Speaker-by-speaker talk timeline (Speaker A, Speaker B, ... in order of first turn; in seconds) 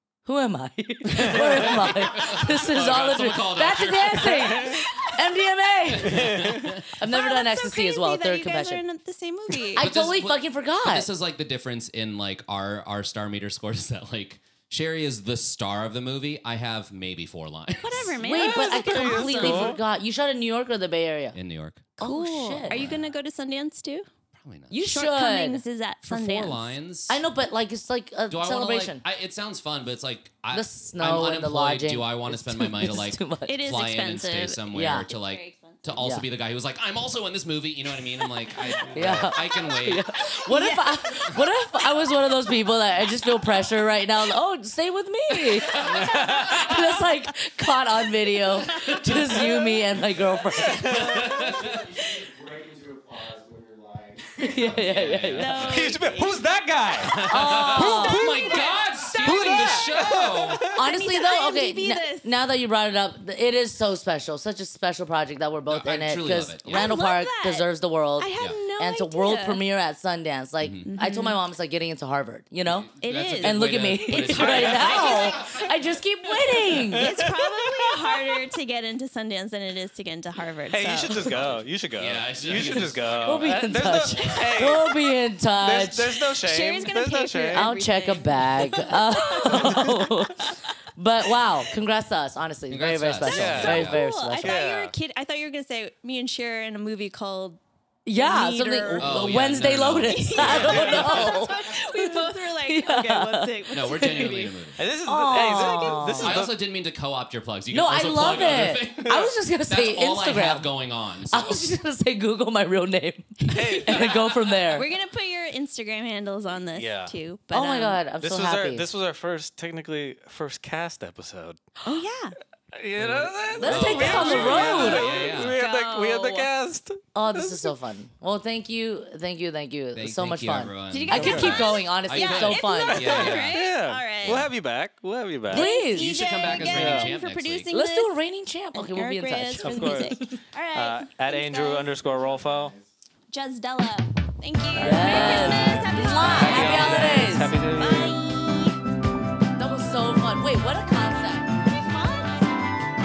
Speaker A: 0.3-8.8, 9.7-11.1, 18.2-21.4, 22.0-22.9, 24.7-25.6, 27.1-29.0, 30.5-33.6, 34.7-35.1, 36.0-36.3, 38.9-51.0, 54.4-55.6, 57.3-58.2, 60.8-77.1, 83.2-86.2, 87.5-94.6, 98.1-104.3, 105.1-106.5, 107.7-110.7, 111.3-114.9, 117.5-118.9, 123.6-125.1, 127.2-133.1, 135.5-136.6, 137.7-140.4, 144.8-147.5, 149.6-151.5
Speaker B: 1.2-1.6, 6.0-6.7, 18.3-19.8, 38.9-39.3, 45.8-46.6, 50.5-51.4, 55.6-60.9, 76.9-78.2, 80.7-85.0, 85.6-87.8, 89.4-89.9, 93.3-93.9, 94.4-95.0, 100.4-101.5, 104.8-106.6, 109.0-109.3, 113.5-114.3, 116.7-117.1, 118.2-121.6, 122.7-127.7, 131.2-131.6, 132.9-135.7, 136.6-137.2, 139.6-140.2, 140.7-142.7, 144.8-145.8, 146.3-148.2
Speaker C: 1.2-4.8, 5.9-6.9, 9.8-18.2, 21.3-21.9, 22.7-23.1, 24.4-24.7, 26.1-27.2, 28.3-40.1, 45.7-46.2, 50.9-51.9, 54.6-56.0, 57.1-60.7, 65.7-67.0, 70.6-70.9, 72.7-75.8, 81.1-84.4, 92.7-94.0, 99.0-101.2, 103.7-104.8, 105.9-111.6, 123.0-125.6, 129.9-133.7, 135.9-137.8
Speaker D: 4.8-5.1, 6.9-9.9, 17.8-19.8, 22.0-24.1, 24.8-26.7, 33.5-36.0, 40.5-42.0, 45.7-46.7, 48.6-49.8, 55.4-56.5, 57.8-60.1, 60.8-62.3, 66.7-67.7, 68.2-69.6, 70.9-71.4, 73.0-75.6, 76.7-81.2, 86.3-90.7, 93.7-97.6, 98.1-104.6, 113.5-114.1, 114.7-118.0, 121.8-122.4, 123.9-126.5, 130.9-134.5, 135.5-138.2, 138.7-141.9, 143.3-148.8, 151.6-152.7
Speaker E: 50.9-55.3, 141.9-142.9